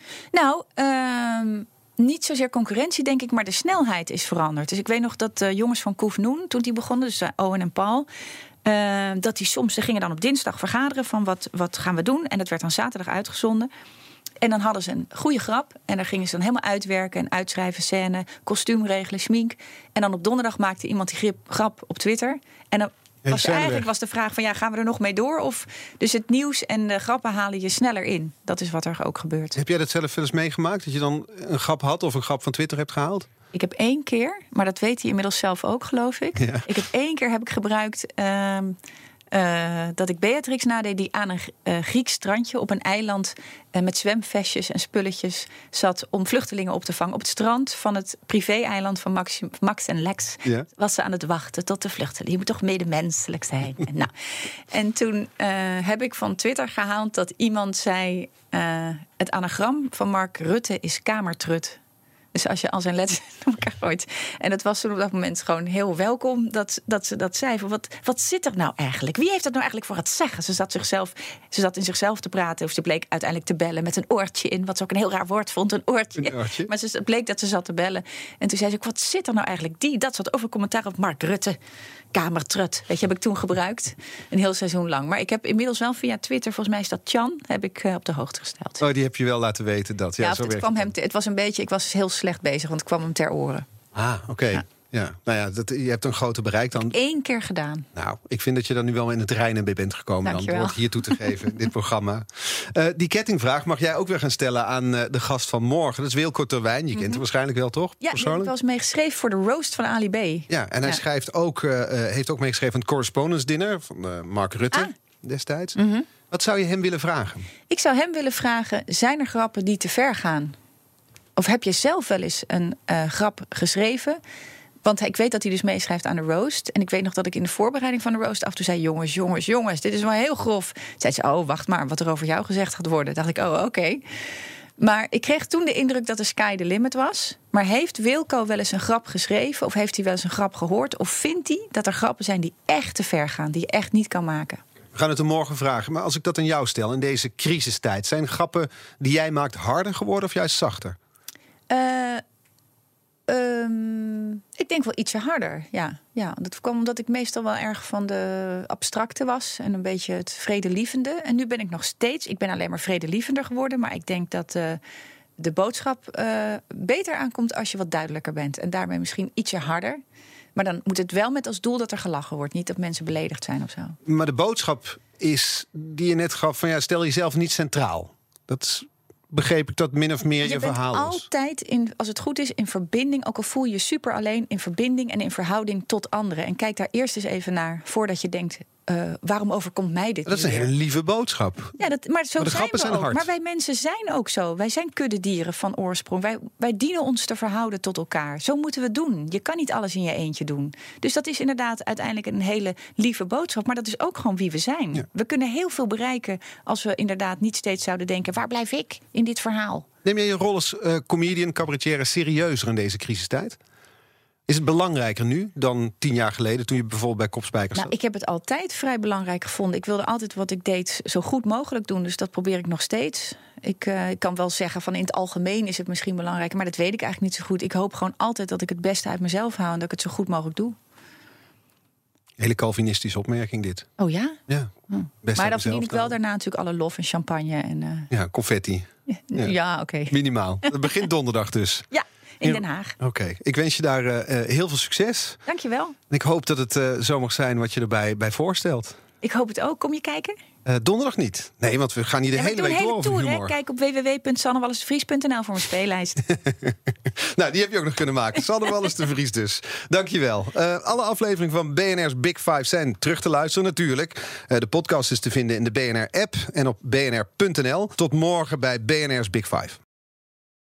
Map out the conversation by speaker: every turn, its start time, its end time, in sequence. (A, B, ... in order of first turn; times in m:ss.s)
0:00.3-0:08.1 A
0:08.6-0:13.7 A
0:14.4-0:29.6 A
0:23.2-0:23.9 B
0:29.6-0:33.3 B
0:33.5-0:38.8 A
0:36.4-0:36.7 B
0:39.3-1:01.8 A
1:02.3-1:21.6 A
1:16.2-1:16.7 B
1:22.1-1:28.8 A
1:28.8-1:30.9 B
1:30.2-1:33.6 A
1:33.9-1:36.9 B
1:36.7-1:37.9 A
1:37.9-1:48.5 B
1:40.2-1:41.3 A
1:47.0-1:47.2 A
1:48.0-1:51.0 A
1:50.5-1:55.8 B
1:55.8-1:56.1 A
1:56.3-1:57.4 B
1:57.7-2:00.6 A
2:01.4-2:04.2 A
2:04.8-2:14.0 A
2:14.8-2:24.6 A
2:24.9-2:31.0 B
2:31.7-2:32.2 A
2:33.3-2:44.8 A
2:45.4-2:50.0 A
2:50.5-2:54.0 A
2:54.0-3:01.2 B
3:00.4-3:10.7 A
3:10.2-3:11.8 B
3:11.8-3:29.8 A
3:12.4-3:13.3 B
3:30.0-3:33.6 B
3:34.5-3:37.9 B
3:37.7-3:50.8 A
3:52.4-3:53.9 B
3:54.0-3:54.4 A
3:54.9-3:58.1 A
3:55.2-3:56.1 B
3:58.1-3:59.5 B
3:59.1-4:00.1 A
4:00.1-4:01.9 B
4:01.9-4:02.9 A
4:02.4-4:05.4 B
4:05.4-4:06.0 A
4:06.1-4:09.0 B
4:09.2-4:10.4 A
4:10.6-4:13.5 B
4:12.3-4:16.2 A
4:16.3-4:29.8 B